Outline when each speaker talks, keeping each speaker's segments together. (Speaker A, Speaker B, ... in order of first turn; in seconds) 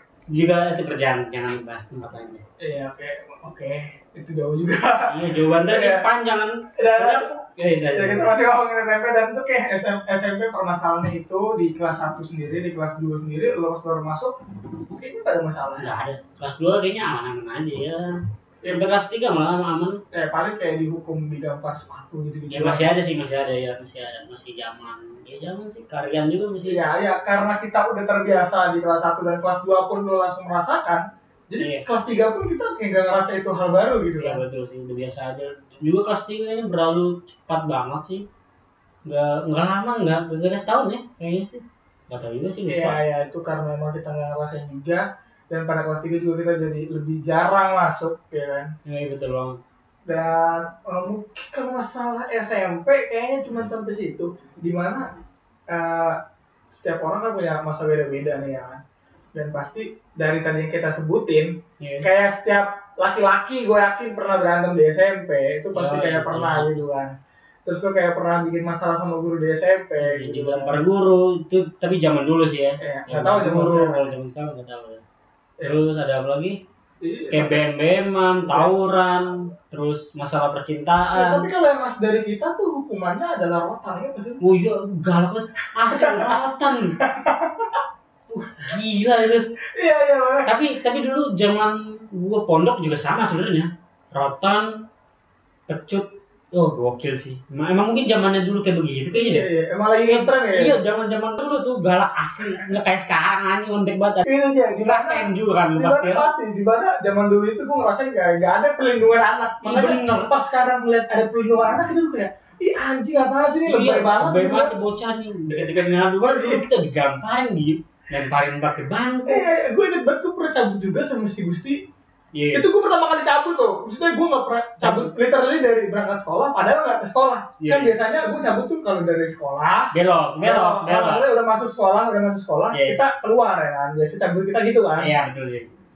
Speaker A: 0.3-2.4, 5.1-8.3, 15.8-18.1, 18.7-20.0, 22.5-26.8, 31.6-31.8, 34.2-38.2, 39.0-43.0, 48.9-49.6, 61.8-62.1, 65.7-66.9, 70.0-75.0, 75.6-76.6, 77.3-81.5, 84.4-87.0, 88.3-89.5, 90.5-94.7, 95.7-99.5, 100.1-104.3, 104.8-106.3, 109.6-110.3, 113.7-119.5, 122.3-122.7, 124.8-125.1, 127.6-127.9, 129.9-131.2, 132.7-133.0, 135.0-135.7
Speaker B: 2.6-6.0, 6.8-7.3, 7.9-14.3, 14.9-15.9, 20.1-22.9, 26.6-34.4, 42.6-48.7, 50.0-55.1, 55.7-56.2, 56.7-58.8, 59.3-70.8, 72.8-74.1, 77.0-77.6, 78.5-78.7, 81.1-84.4, 85.9-86.5, 87.0-87.8, 89.7-90.5, 99.1-100.8, 104.2-114.8, 115.5-116.7, 119.3-121.8, 122.5-135.1